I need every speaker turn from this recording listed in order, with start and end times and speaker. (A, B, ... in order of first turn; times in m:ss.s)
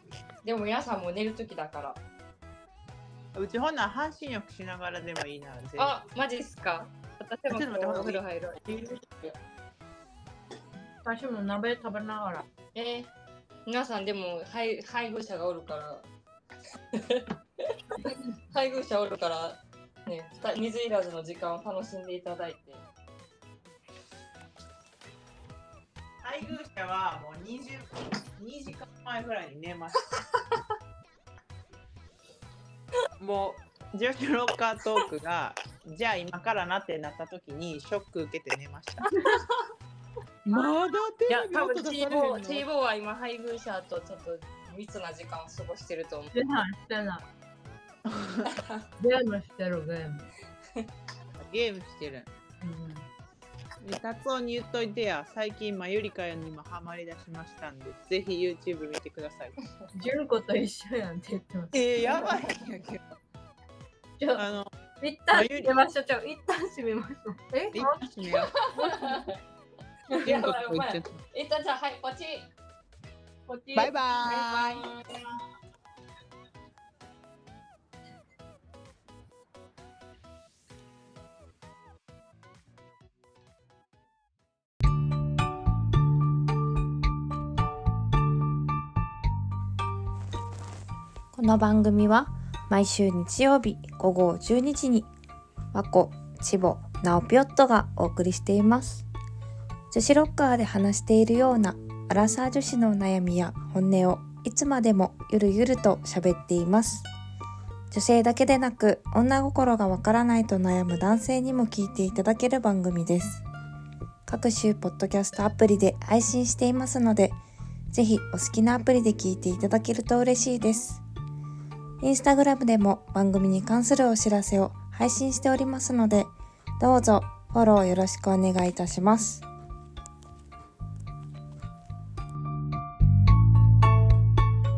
0:00.4-0:02.0 A
0:03.3-0:06.0 B
0:05.8-0:08.7 A
0:07.5-0:09.0 B
0:11.0-0:12.5 C
0:12.7-0:13.1 A
0:13.6-0:16.1 A
0:16.9-0:17.8 A
0:18.5-0:22.8 A
0:26.2-0:30.0 B
0:33.2-0:39.1 B
0:40.5-0:42.6 B
0:41.3-0:46.4 A
0:46.3-0:47.2 C
0:48.0-0:48.5 B
0:48.6-0:48.8 A
0:49.0-0:50.2 C
0:51.4-0:52.3 B
0:52.6-0:53.1 C
0:53.8-0:59.6 B
0:59.9-1:02.4 C
1:01.7-1:03.1 B
1:04.2-1:04.4 C
1:04.4-1:04.7 B
1:05.0-1:09.2 C
1:05.3-1:05.8 B
1:07.7-1:08.5 B
1:08.3-1:09.4 A
1:10.1-1:12.5 A
1:10.2-1:11.2 B
1:13.5-1:13.9 C
1:13.8-1:14.9 B
1:14.2-1:15.3 A
1:31.3-1:35.1 D
1:35.7-1:39.1 D
1:39.9-1:47.1 D
1:47.9-1:53.4 D
1:54.3-1:57.4 D
1:57.9-2:01.0 D
2:02.0-2:09.4 D